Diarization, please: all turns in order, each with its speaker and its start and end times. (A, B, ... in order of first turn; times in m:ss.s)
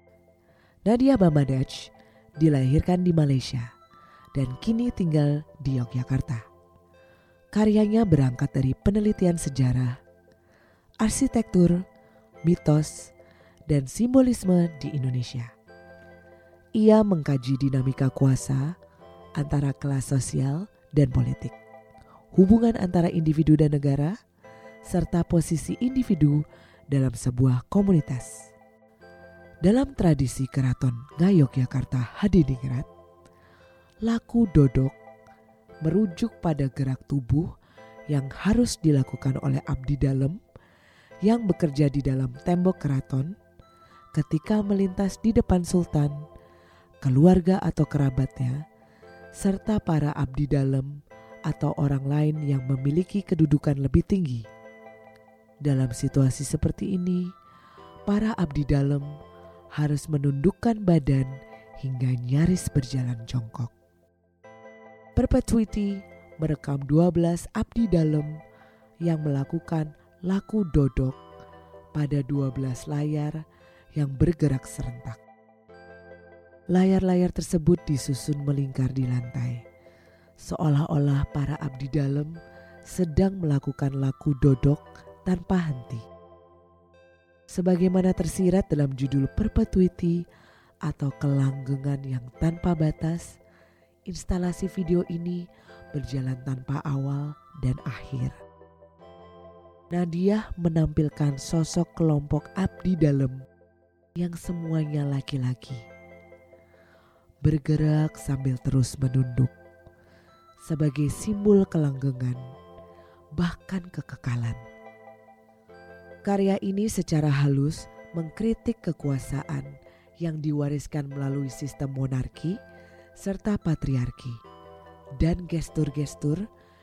0:00.8-0:03.7 A
0:04.3-0:06.4 A
0:07.5-0:10.0 A
0:11.0-0:11.8 A
0:12.4-0:13.1 A
0:13.7-0:15.5 A
0:16.8-0:18.7 A
0:19.4-0:21.6 A
0:22.3-0:24.2 A
0:24.8-0:28.4 A
0:29.6-0:32.9 A
0:34.0-0:34.9 A
0:35.8-0:37.5 A
0:38.1-0:40.4 A
0:41.2-0:43.3 A
0:44.1-0:46.2 A
0:47.0-0:48.6 A
0:49.4-0:50.9 A
0:51.5-0:54.4 A
0:55.6-0:57.3 A
0:58.1-0:59.2 A
0:59.7-1:03.7 A
1:05.2-1:08.4 A
1:09.0-1:11.2 A
1:11.9-1:15.2 A
1:16.7-1:19.6 A
1:20.4-1:26.0 A
1:27.5-1:30.2 A
1:30.8-1:33.4 A
1:34.1-1:38.4 A
1:39.9-1:43.4 A
1:44.2-1:45.8 A
1:47.4-1:49.5 A
1:50.6-1:52.4 A
1:53.4-1:54.6 A
1:56.2-2:02.6 A
2:03.2-2:04.4 A
2:05.2-2:06.5 A